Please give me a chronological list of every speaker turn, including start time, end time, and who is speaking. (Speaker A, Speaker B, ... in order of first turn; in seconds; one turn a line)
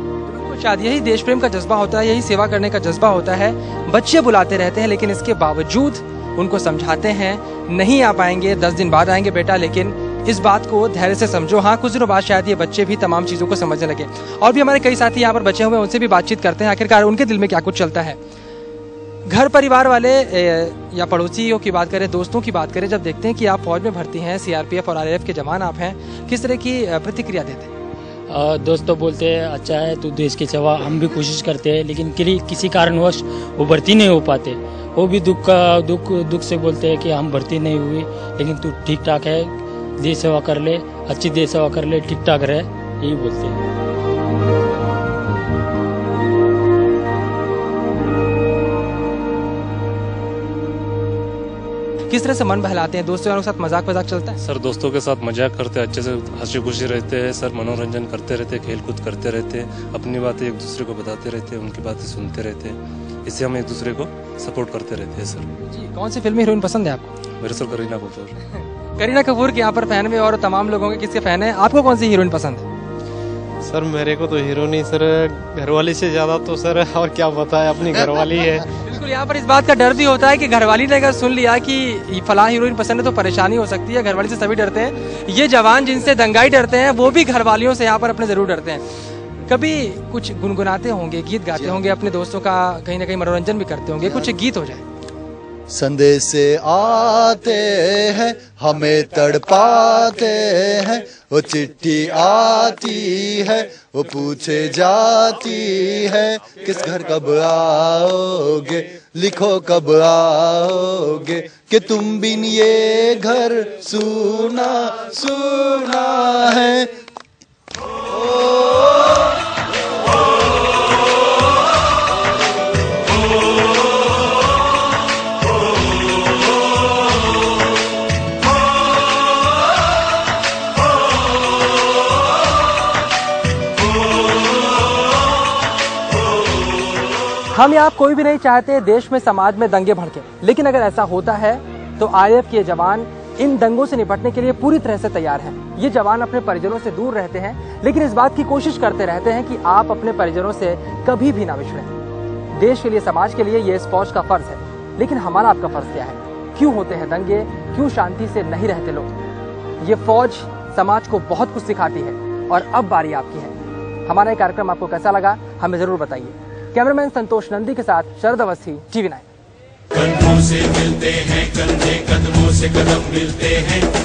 Speaker A: 0.3-18.2
Speaker A: 19.3-27.7
Speaker B: 28.3-43.6
Speaker A: 52.1-54.4
Speaker C: 54.4-65.5
Speaker A: 65.7-67.1
Speaker C: 67.4-68.3
Speaker A: 69.0-72.7
Speaker D: 73.7-78.6
Speaker A: 78.7-88.8
Speaker A: 89.5-94.8
Speaker E: 91.6-91.8
Speaker E: 95.7-116.9
Speaker E: 118.1-119.2
Speaker A: 137.5-151.9
Speaker A: 152.6-159.1
Speaker A: 159.8-163.6
Speaker A: 164.1-169.3
Speaker F: 170.2-173.7